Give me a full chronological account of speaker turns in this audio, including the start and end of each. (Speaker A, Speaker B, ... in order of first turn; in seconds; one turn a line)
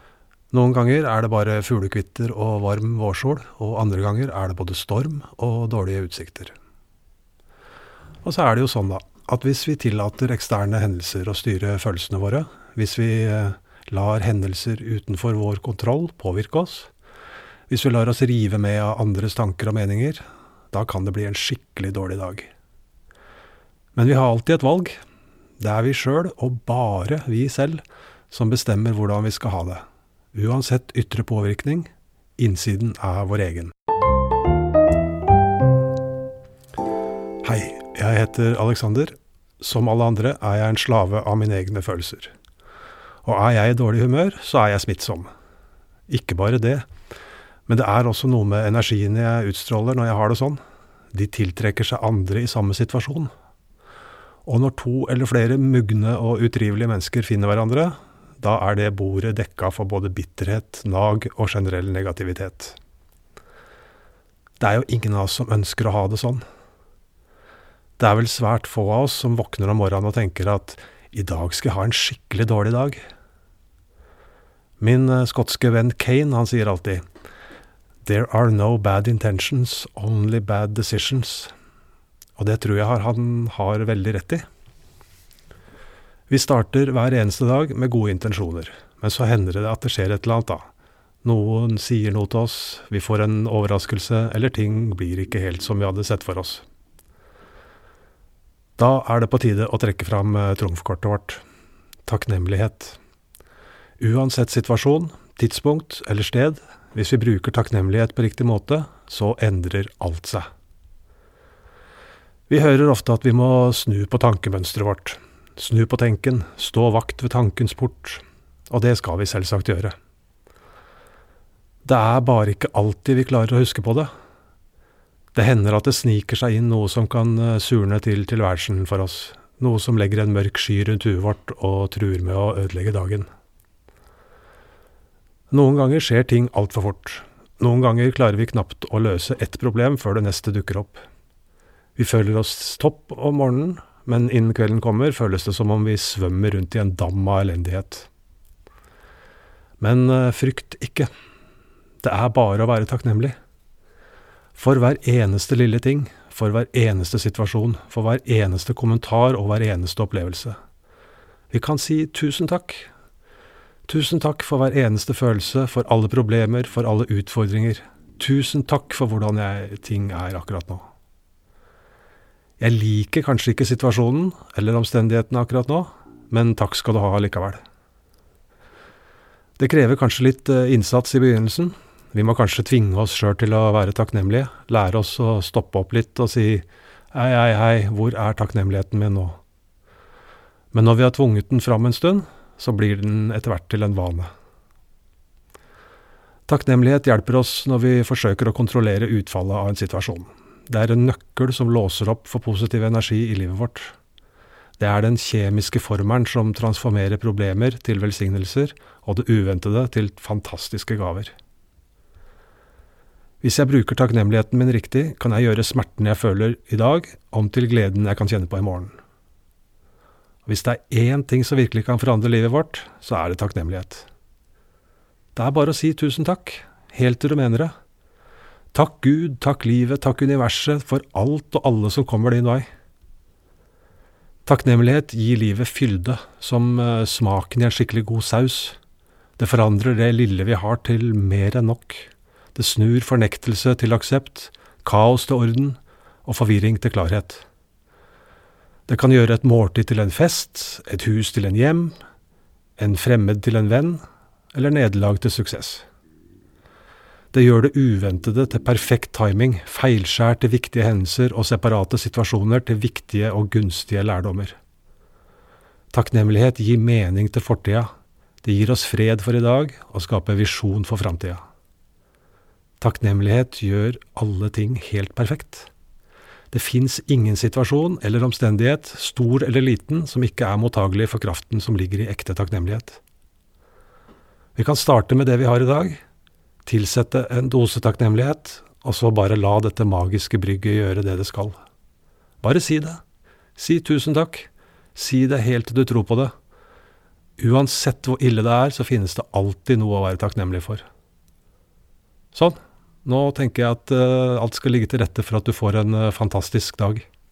Speaker A: 0.5-6.5
Speaker A: 8.2-16.9
Speaker A: 17.7-22.5
Speaker A: 23.9-25.0
Speaker A: 25.6-29.8
Speaker A: 30.3-33.7
Speaker A: 37.4-42.3
Speaker A: 43.2-45.3
Speaker A: 46.1-46.9
Speaker A: 47.7-50.6
Speaker A: 51.1-53.3
Speaker A: 54.4-62.8
Speaker A: 64.6-66.4
Speaker A: 68.0-73.0
Speaker A: 74.8-77.0
Speaker A: 78.0-81.5
Speaker A: 82.4-84.4
Speaker A: 86.3-90.6
Speaker A: 91.2-96.6
Speaker A: 98.8-101.4
Speaker A: 102.0-103.0
Speaker A: 104.0-110.5
Speaker A: 112.5-119.9
Speaker A: 121.8-124.1
Speaker A: 125.3-133.3
Speaker A: 135.5-141.0
Speaker A: 141.9-148.1
Speaker A: 149.8-151.1
Speaker A: 152.0-153.3
Speaker A: 154.5-160.6
Speaker A: 161.5-162.9
Speaker A: 163.9-170.8
Speaker A: 172.6-177.6
Speaker A: 179.6-189.4
Speaker A: 190.7-194.3
Speaker A: 196.5-203.9
Speaker A: 204.8-211.3
Speaker A: 213.4-219.0
Speaker A: 220.4-224.1
Speaker A: 225.3-227.7
Speaker A: 228.7-232.7
Speaker A: 234.4-238.8
Speaker A: 239.4-247.4
Speaker A: 248.9-251.9
Speaker A: 252.8-254.0
Speaker A: 254.5-255.8
Speaker A: 257.3-264.6
Speaker A: 265.9-267.9
Speaker A: 268.4-271.4
Speaker A: 272.8-275.7
Speaker A: 276.5-283.0
Speaker A: 284.6-286.0
Speaker A: 286.6-291.6
Speaker A: 292.4-293.0
Speaker A: 293.6-296.3
Speaker A: 297.4-300.8
Speaker A: 302.3-307.1